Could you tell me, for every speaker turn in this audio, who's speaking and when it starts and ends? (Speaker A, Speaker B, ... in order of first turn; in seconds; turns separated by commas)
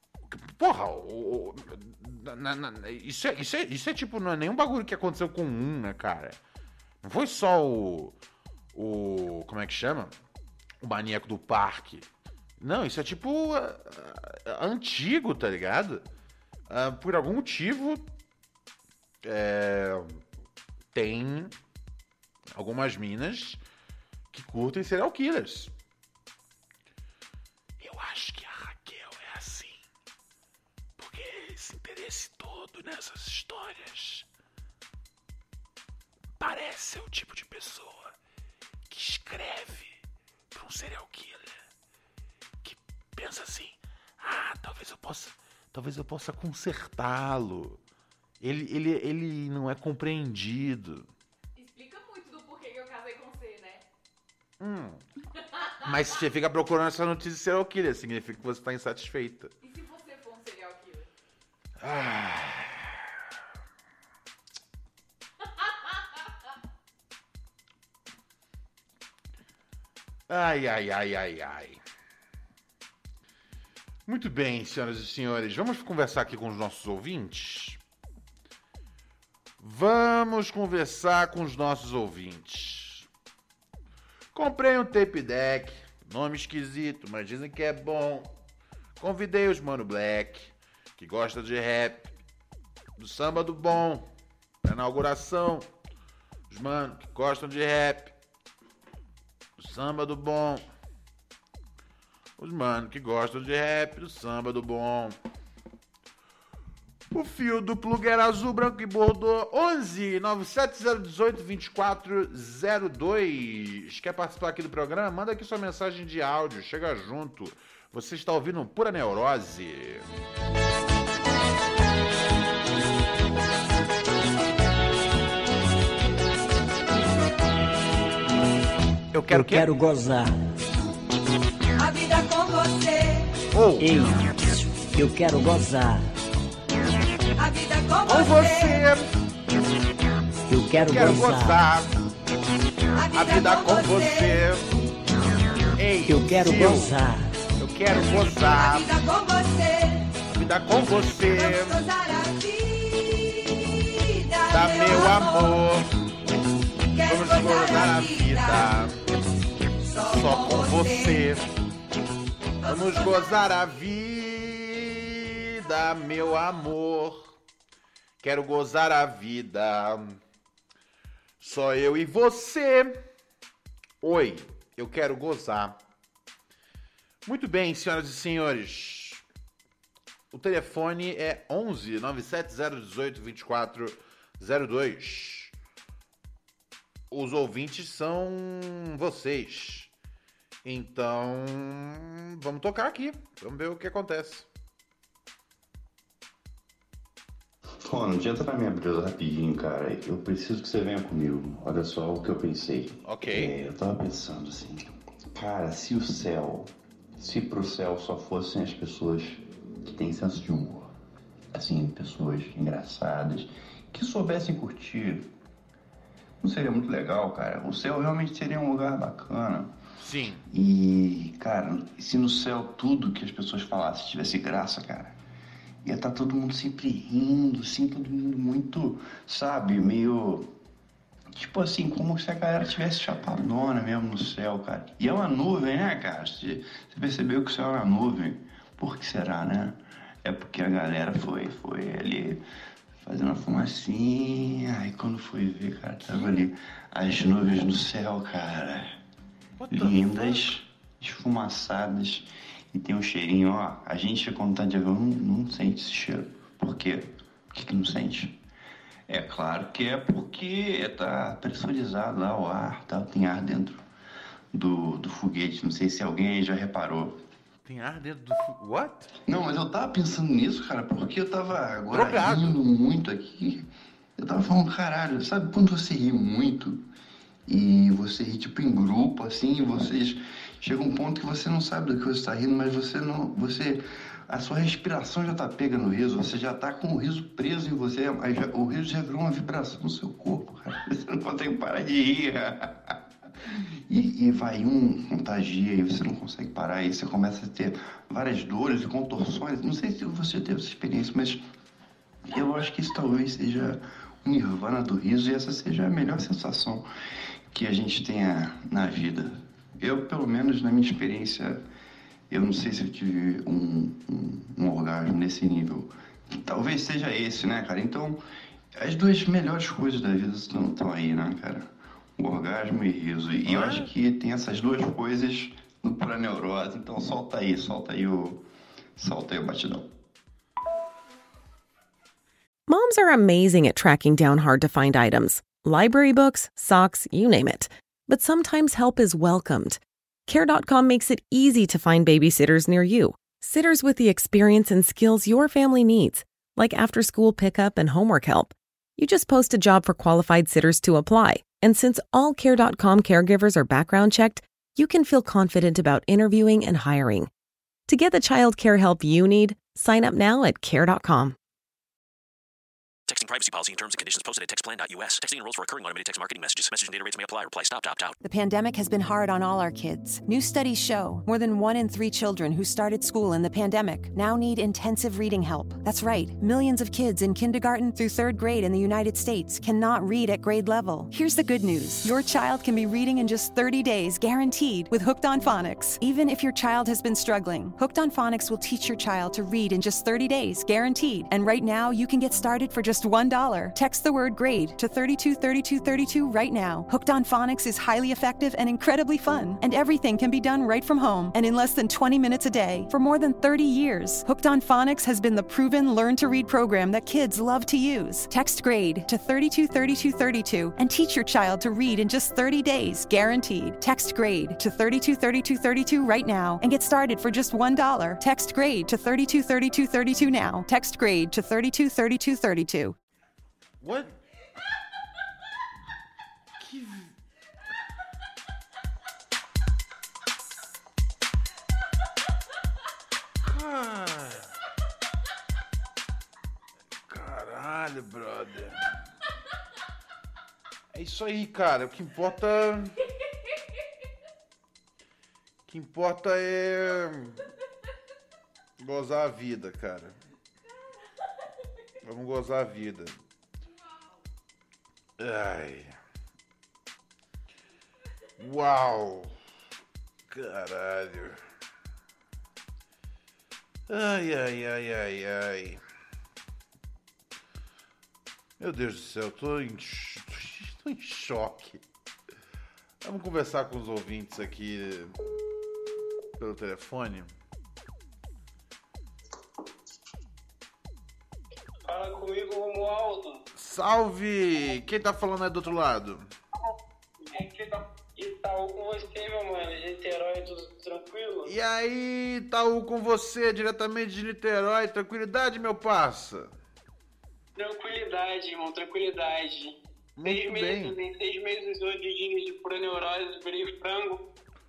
Speaker A: 0.3-6.4, Speaker A: 7.0-8.2, Speaker A: 8.7-10.1, Speaker A: 10.8-12.1, Speaker A: 12.6-16.1, Speaker A: 16.7-18.0, Speaker A: 19.2-20.2, Speaker A: 20.9-21.5, Speaker A: 22.5-23.6, Speaker A: 24.3-25.7, Speaker A: 27.8-29.8, Speaker A: 31.0-34.3, Speaker A: 36.4-38.1, Speaker A: 38.9-40.0, Speaker A: 40.5-41.6, Speaker A: 42.6-47.8, Speaker A: 48.4-51.1, Speaker B: 51.5-53.9, Speaker A: 54.6-55.0, Speaker B: 55.3-56.2, Speaker A: 55.8-59.5, Speaker B: 59.6-61.1, Speaker A: 61.8-63.0, Speaker B: 65.4-66.2, Speaker A: 70.3-71.8, Speaker A: 74.0-77.8, Speaker A: 79.6-83.1, Speaker A: 84.3-88.3, Speaker A: 89.0-92.1, Speaker A: 93.0-94.0, Speaker A: 94.6-95.7, Speaker A: 96.5-98.1, Speaker A: 99.6-100.7, Speaker A: 102.4-105.2, Speaker A: 107.1-120.0, Speaker A: 129.1-129.7, Speaker C: 129.3-130.3, Speaker D: 131.8-133.3, Speaker A: 133.5-134.3, Speaker C: 133.8-134.3, Speaker C: 134.9-136.1, Speaker D: 137.4-138.8, Speaker A: 138.1-139.1, Speaker C: 140.5-141.6, Speaker A: 140.8-142.0, Speaker D: 142.9-144.4, Speaker A: 143.1-144.7, Speaker A: 145.8-147.0, Speaker C: 146.1-147.3, Speaker A: 147.6-148.9, Speaker D: 148.4-150.2, Speaker A: 150.3-151.8, Speaker D: 151.1-155.6, Speaker A: 154.5-155.9, Speaker D: 156.9-159.2, Speaker A: 157.0-159.1, Speaker D: 159.8-161.3, Speaker A: 160.1-161.5, Speaker D: 162.6-163.5, Speaker A: 162.6-167.3, Speaker A: 168.2-170.2, Speaker A: 171.4-173.0, Speaker A: 174.0-175.8, Speaker A: 177.2-179.2, Speaker A: 180.3-185.5, Speaker A: 187.1-189.9, Speaker A: 190.6-194.5, Speaker E: 197.8-210.9, Speaker A: 203.0-203.5, Speaker E: 211.5-215.3, Speaker E: 216.4-219.7, Speaker A: 220.0-220.4, Speaker E: 220.5-225.2, Speaker E: 225.8-230.5, Speaker E: 231.3-242.4, Speaker E: 243.0-249.0, Speaker A: 246.1-246.4, Speaker A: 249.6-250.5, Speaker E: 249.7-258.3, Speaker E: 259.1-263.8, Speaker E: 264.5-267.2, Speaker A: 267.6-269.1, Speaker E: 269.2-273.6, Speaker A: 271.9-272.6, Speaker E: 274.2-276.8, Speaker E: 277.5-301.4, Speaker E: 302.3-306.8, Speaker E: 307.5-311.6, Speaker E: 312.3-318.2, Speaker E: 318.8-328.4, Speaker A: 323.4-323.9, Speaker E: 329.0-329.9, Speaker F: 332.7-357.3, Speaker F: 357.9-361.4, Speaker G: 363.1-368.2, Speaker H: 368.2-422.9, Speaker A: 423.8-424.1, Speaker A: 426.6-427.1, Speaker A: 433.4-434.5, Speaker A: 437.1-438.9, Speaker A: 440.9-442.9, Speaker A: 445.7-447.4, Speaker A: 448.8-450.1, Speaker A: 452.0-453.2, Speaker B: 453.6-454.2, Speaker A: 455.2-455.9, Speaker A: 458.4-459.3, Speaker A: 460.3-461.4, Speaker A: 463.9-465.8, Speaker A: 468.6-471.8, Speaker A: 473.0-475.1, Speaker A: 476.4-477.3, Speaker I: 481.9-483.4, Speaker A: 483.6-486.3, Speaker I: 486.6-491.5, Speaker A: 491.4-496.5, Speaker I: 497.6-504.2, Speaker A: 500.2-500.9